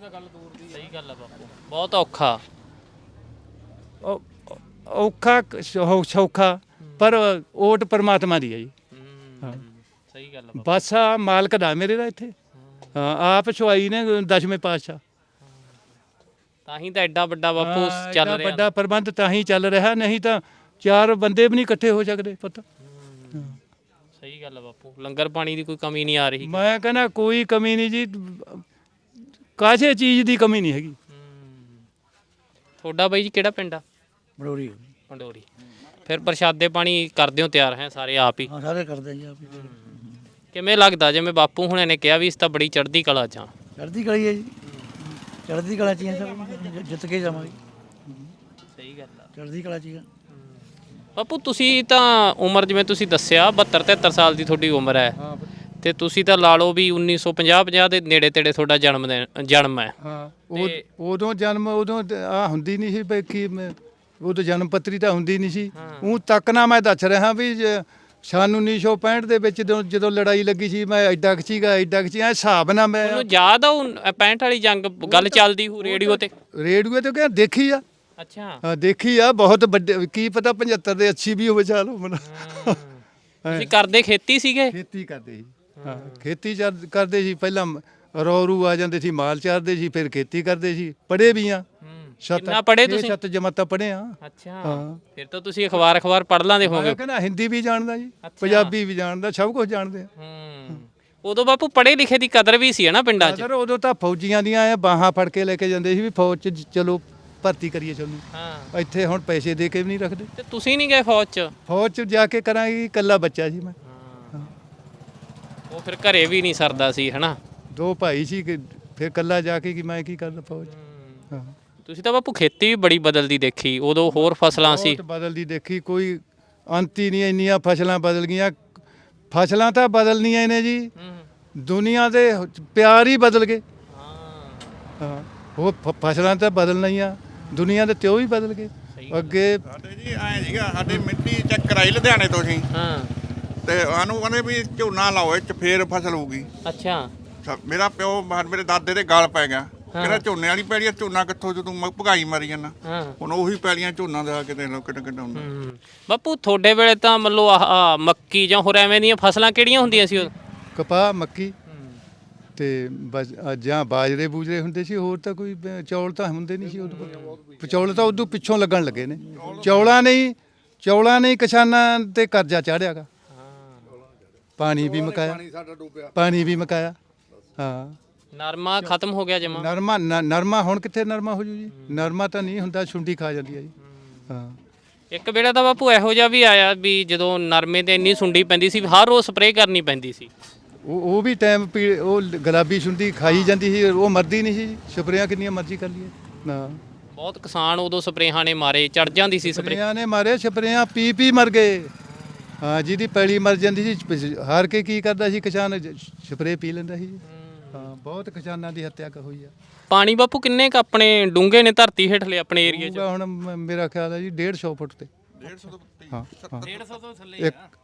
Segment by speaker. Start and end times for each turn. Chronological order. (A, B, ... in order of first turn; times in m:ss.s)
0:00.5-0:02.4 A
0:04.0-0:08.7 B
0:06.8-0:07.2 A
0:08.9-0:10.7 A
0:10.6-0:12.3 B
0:12.6-0:13.0 A
0:13.0-0:15.0 B
0:16.7-0:18.7 A
0:17.6-0:22.6 B
0:22.8-0:23.6 A
0:24.2-0:26.6 A
0:26.4-0:28.6 B
0:29.6-0:31.0 B
0:31.1-0:31.9 A
0:32.8-0:33.8 A
0:34.4-0:34.8 C
0:35.1-0:35.5 A
0:36.0-0:38.5 A
0:38.5-0:40.2 C
0:39.4-0:43.5 A
0:43.8-0:44.5 C
0:44.6-0:44.9 A
0:45.3-0:47.5 C
0:48.7-0:49.3 A
0:49.4-0:50.1 C
0:50.3-0:50.6 A
0:51.2-0:55.2 A
0:55.2-0:55.5 B
0:55.8-0:59.9 A
1:00.0-1:13.3 B
1:00.5-1:00.8 A
1:05.7-1:06.2 A
1:13.0-1:16.3 A
1:15.0-1:17.8 B
1:18.2-1:18.6 A
1:18.6-1:22.8 B
1:22.2-1:24.8 A
1:23.4-1:23.7 B
1:24.7-1:31.6 B
1:25.8-1:26.2 A
1:31.8-1:33.2 A
1:32.2-1:35.0 B
1:34.2-1:37.0 A
1:36.6-1:40.1 B
1:38.2-1:38.8 A
1:40.2-1:43.4 A
1:43.2-1:50.3 B
1:48.3-1:48.7 A
1:50.4-1:51.5 A
1:51.7-1:53.8 B
1:53.8-1:54.5 A
1:55.7-1:57.4 A
1:57.7-2:00.7 B
2:00.6-2:01.3 A
2:01.8-2:05.0 A
2:04.1-2:08.8 B
2:09.3-2:10.9 B
2:11.0-2:11.3 A
2:11.6-2:13.6 B
2:13.9-2:14.8 A
2:15.0-2:19.6 B
2:18.9-2:19.4 A
2:19.7-2:22.7 D
2:22.7-2:23.1 A
2:23.6-2:26.5 D
2:26.6-2:27.1 A
2:27.4-2:35.5 D
2:29.9-2:30.2 A
2:32.8-2:33.2 A
2:35.4-2:40.3 A
2:39.8-2:41.6 B
2:41.7-2:42.0 A
2:42.6-2:53.1 B
2:46.7-2:47.9 E
2:46.9-2:47.4 A
2:49.3-2:49.8 D
2:53.3-2:54.0 A
2:54.6-2:55.4 B
2:54.8-2:56.1 E
2:56.2-2:57.0 B
2:57.6-2:58.0 B
2:58.3-2:59.7 A
2:59.4-3:03.7 B
3:01.7-3:02.1 A
3:03.8-3:04.3 A
3:04.3-3:04.6 B
3:05.1-3:10.3 A
3:10.8-3:16.8 B
3:13.2-3:13.6 A
3:17.1-3:19.8 A
3:19.4-3:21.9 B
3:22.0-3:22.6 A
3:22.6-3:27.2 B
3:27.2-3:27.9 A
3:27.7-3:29.5 B
3:29.9-3:33.1 A
3:32.6-3:35.1 B
3:35.4-3:36.8 D
3:36.1-3:36.7 B
3:37.3-3:37.6 B